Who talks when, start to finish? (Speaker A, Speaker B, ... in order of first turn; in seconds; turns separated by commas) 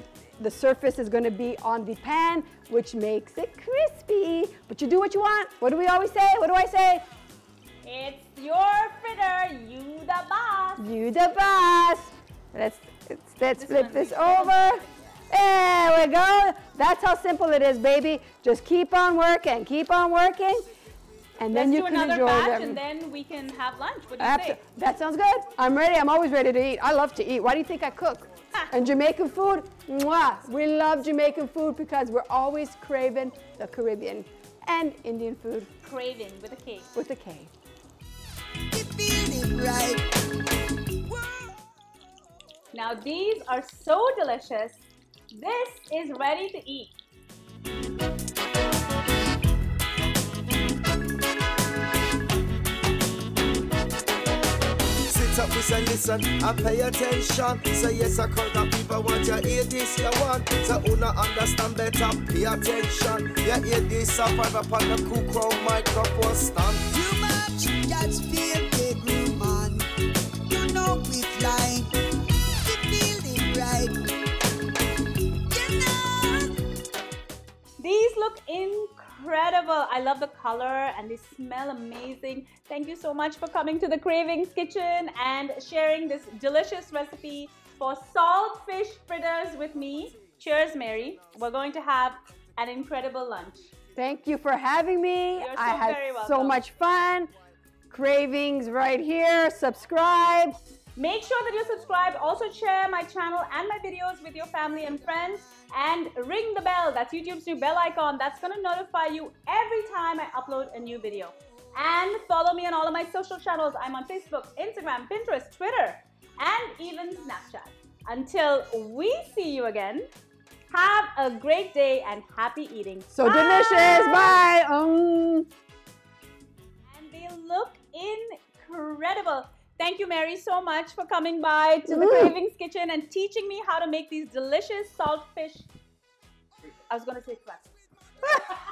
Speaker A: 0.4-7.0, Speaker B: 7.8-10.8, Speaker A: 10.8-20.6, Speaker B: 13.6-15.2, Speaker A: 21.4-22.8, Speaker B: 21.5-24.6, Speaker A: 24.2-35.7, Speaker B: 35.8-36.9, Speaker A: 36.9-37.5, Speaker C: 38.7-40.1, Speaker C: 41.1-41.4, Speaker B: 42.7-46.9, Speaker D: 55.1-66.9, Speaker C: 66.9-69.9, Speaker C: 70.5-74.0, Speaker C: 75.5-76.5, Speaker B: 77.8-93.7, Speaker A: 94.0-97.3, Speaker B: 95.4-96.6, Speaker A: 97.9-100.6, Speaker B: 101.0-120.0, Speaker B: 120.7-124.4, Speaker A: 123.1-125.5, Speaker B: 126.9-135.7, Speaker A: 131.8-132.3, Speaker B: 136.9-137.7